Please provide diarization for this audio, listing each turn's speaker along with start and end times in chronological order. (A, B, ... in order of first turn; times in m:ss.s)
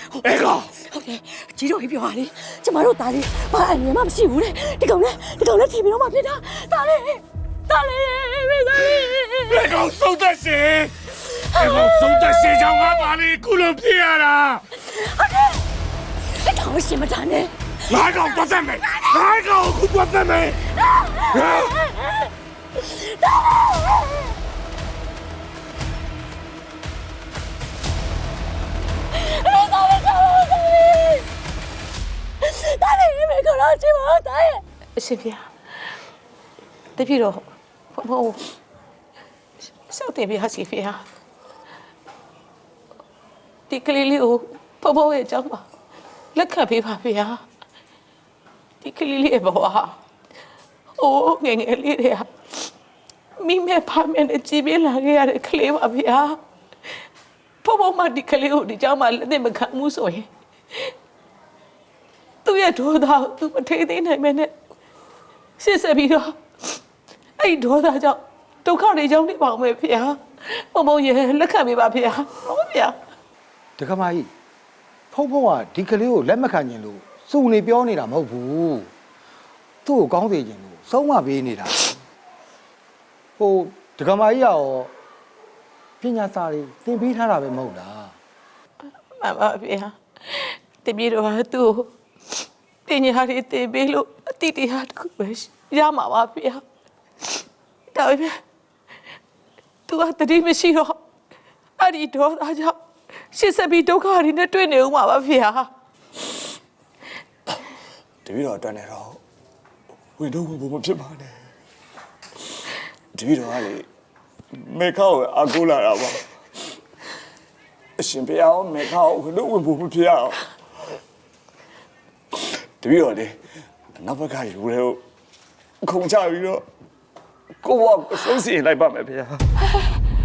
0:00.2-0:09.8 A
0:00.2-0:00.7 B
0:09.5-0:10.9 B
0:11.5-0:12.8 A
0:11.5-0:14.6 B
0:14.8-0:15.6 A
0:16.4-0:17.5 A
0:17.9-0:20.6 B
0:18.8-0:19.2 A
0:20.9-0:22.1 A
0:21.3-0:21.7 B
0:22.9-0:24.3 A
0:29.1-0:31.2 A
0:32.4-0:34.6 A
0:35.0-0:35.9 C
0:37.0-0:38.4 C
0:39.9-0:41.0 C
0:43.7-0:45.6 C
0:46.3-0:47.4 C
0:48.8-0:50.0 C
0:51.0-0:52.3 C
0:53.4-0:56.4 C
0:57.6-1:00.9 C
1:02.4-1:04.5 C
1:05.6-1:06.4 C
1:07.4-1:13.0 C
1:13.8-1:14.3 D
1:15.1-1:18.9 D
1:19.8-1:21.9 D
1:23.4-1:24.9 D
1:26.0-1:28.2 D
1:29.1-1:31.9 C
1:32.9-1:36.6 C
1:37.9-1:38.4 C
1:39.9-1:41.0 C
1:41.8-1:42.8 C
1:43.3-1:45.7 C
1:48.2-1:49.2 E
1:50.2-1:51.4 E
1:53.1-1:53.8 E
1:54.5-1:56.2 E
1:58.0-2:00.5 E
2:02.8-2:03.4 E
2:04.0-2:05.0 E
2:05.8-2:06.6 E
2:07.6-2:09.4 E